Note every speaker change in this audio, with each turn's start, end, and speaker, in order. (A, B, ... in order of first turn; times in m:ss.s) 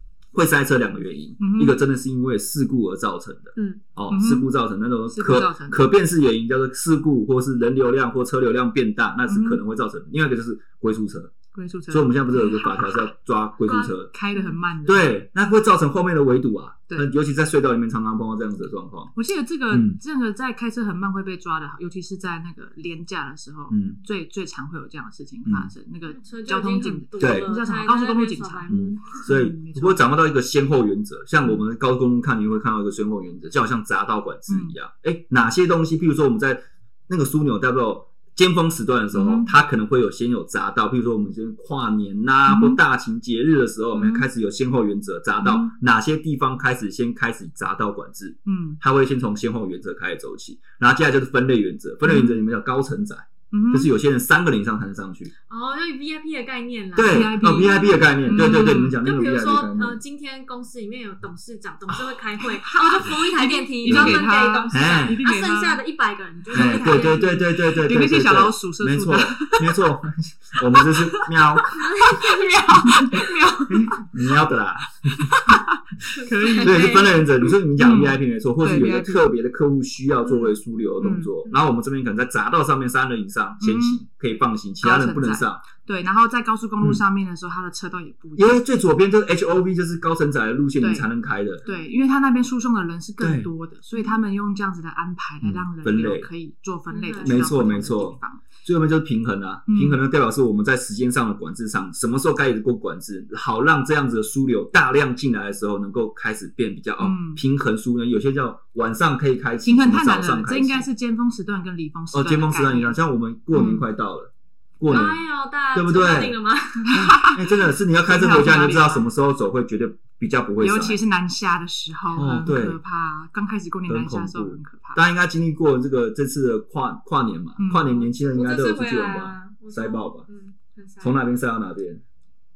0:00.3-0:11.3 A
0:01.4-0:01.8 B
0:03.6-0:03.8 C
0:04.1-0:04.5 B
0:05.1-0:05.8 B
0:09.3-0:09.6 B
0:11.5-0:13.1 B
0:11.9-0:14.1 A
0:13.6-0:14.6 C
0:14.1-0:15.1 B
0:14.9-0:19.1 A
0:19.2-0:30.1 B
0:19.7-0:20.0 A
0:23.7-0:24.0 A
0:25.5-0:25.7 A
0:26.1-0:29.2 C
0:27.2-0:27.5 A
0:28.7-0:55.3 A
0:34.5-0:34.8 B
0:39.1-0:39.5 B
0:42.5-0:42.8 B
0:43.9-0:44.3 B
0:45.4-0:45.7 B
0:48.5-0:48.8 B
0:52.0-0:52.4 B
0:53.5-0:53.9 B
0:55.5-1:07.4 C
0:57.0-1:00.0 A
0:57.1-0:59.0 B
1:02.6-1:05.8 B
1:03.9-1:05.2 A
1:06.5-1:09.8 B
1:06.5-1:11.8 A
1:10.7-1:14.1 B
1:11.8-1:12.6 C
1:13.7-1:15.5 A
1:15.1-1:17.0 B
1:16.2-1:17.3 C
1:16.6-1:25.6 A
1:17.8-1:19.2 B
1:20.2-1:20.6 C
1:21.0-1:21.3 B
1:23.6-1:24.0 B
1:24.8-1:28.6 B
1:28.4-1:31.6 A
1:30.8-1:31.1 B
1:31.6-1:38.4 B
1:33.2-1:33.5 A
1:35.4-1:36.3 A
1:36.9-1:37.5 C
1:37.2-1:50.9 A
1:39.7-1:40.0 B
1:47.0-1:47.4 B
1:49.6-1:53.0 B
1:52.1-1:55.2 A
1:53.5-1:53.8 B
1:54.9-1:56.9 C
1:55.7-1:56.4 A
1:56.8-1:59.1 B
1:56.9-2:01.0 A
2:00.6-2:05.0 B
2:02.2-2:02.8 A
2:03.9-2:10.2 A
2:07.6-2:08.1 B
2:08.1-2:11.2 C
2:11.0-2:12.0 A